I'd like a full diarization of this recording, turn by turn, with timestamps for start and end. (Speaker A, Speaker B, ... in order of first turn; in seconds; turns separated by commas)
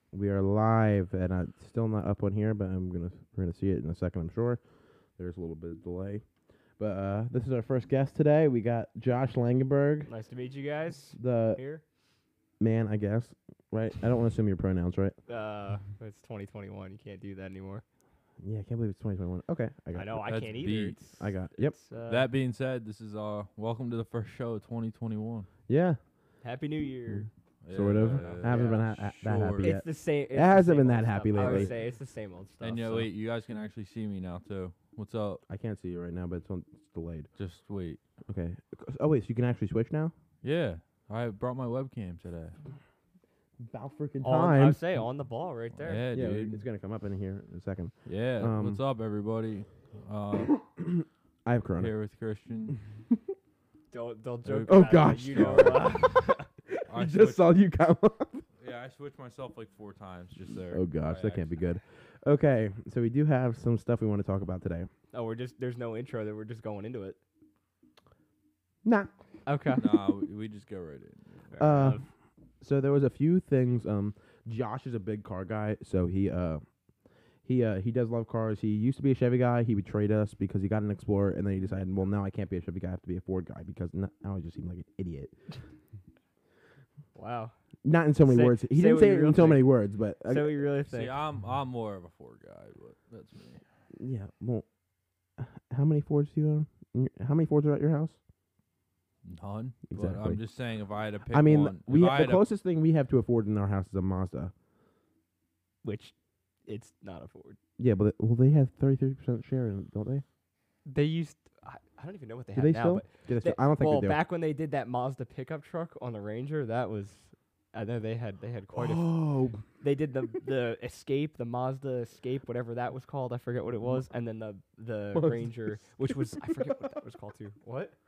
Speaker A: 0.1-4.6, Speaker A: 5.2-6.2, Speaker A: 6.8-10.1, Speaker B: 10.1-11.8, Speaker A: 11.2-11.6, Speaker A: 12.6-15.2, Speaker B: 15.3-17.8, Speaker A: 18.4-20.2, Speaker B: 19.9-22.3, Speaker C: 20.3-21.0, Speaker A: 21.1-21.8, Speaker C: 22.1-25.5, Speaker A: 25.7-26.0, Speaker B: 26.4-27.3, Speaker C: 27.6-29.8, Speaker A: 27.7-31.7, Speaker B: 28.1-28.8, Speaker B: 29.6-33.1, Speaker C: 31.4-31.7, Speaker C: 32.6-35.4, Speaker A: 35.5-37.3, Speaker C: 37.4-38.0, Speaker A: 38.3-40.1, Speaker C: 40.4-42.6, Speaker A: 43.6-44.8, Speaker B: 44.2-46.0, Speaker C: 45.8-46.6, Speaker A: 46.1-48.8, Speaker C: 48.1-50.6, Speaker A: 50.5-51.9, Speaker C: 51.8-52.8, Speaker A: 52.8-53.2, Speaker B: 53.9-56.5, Speaker C: 54.5-56.1, Speaker A: 54.7-58.4, Speaker C: 56.9-57.5, Speaker C: 58.6-61.6, Speaker A: 60.7-64.9, Speaker B: 65.1-67.2, Speaker A: 68.8-69.1, Speaker B: 69.5-69.9, Speaker C: 69.8-71.5, Speaker B: 71.5-72.0, Speaker A: 71.6-72.0, Speaker A: 72.6-76.6, Speaker A: 77.5-85.4, Speaker B: 87.2-87.5, Speaker A: 87.8-90.6, Speaker B: 88.2-89.7, Speaker B: 90.3-91.1, Speaker C: 90.9-93.6, Speaker A: 93.9-94.7, Speaker A: 95.4-98.2, Speaker C: 99.2-102.5, Speaker A: 99.9-100.4, Speaker A: 101.3-104.5, Speaker B: 105.8-106.1, Speaker B: 106.7-107.6, Speaker A: 107.8-110.2, Speaker B: 110.9-119.1, Speaker A: 112.5-114.2, Speaker A: 118.7-119.7, Speaker B: 119.8-128.0, Speaker A: 125.1-127.0